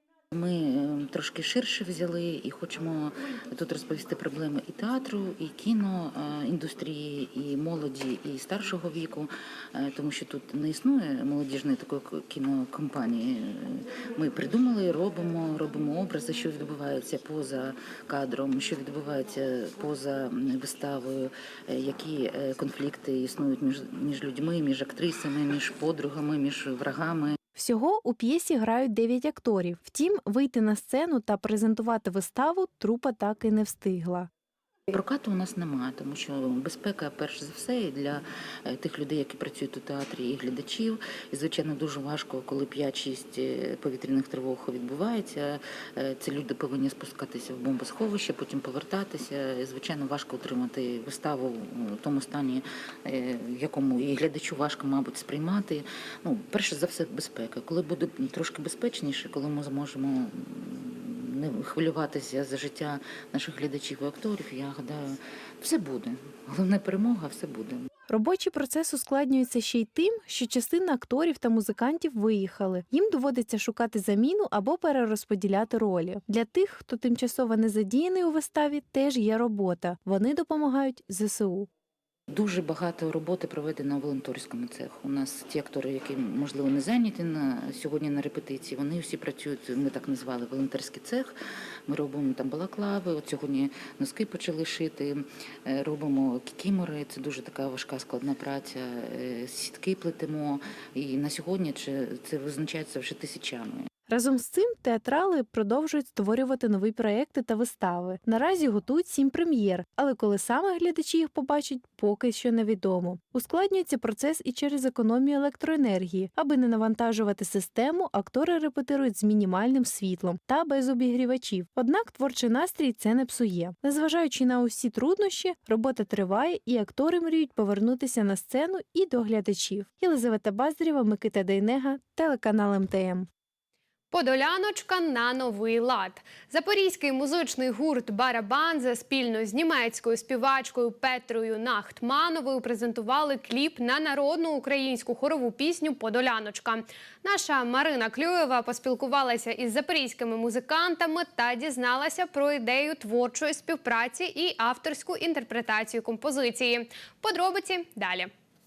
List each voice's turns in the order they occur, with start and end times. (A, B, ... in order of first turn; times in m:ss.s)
0:00.3-0:27.4 A
0:27.5-0:34.3 B
0:34.9-1:07.8 A
1:08.1-1:21.7 B
1:22.3-1:31.3 A
1:31.9-1:43.9 A
1:44.1-2:13.3 B
2:14.1-2:38.3 C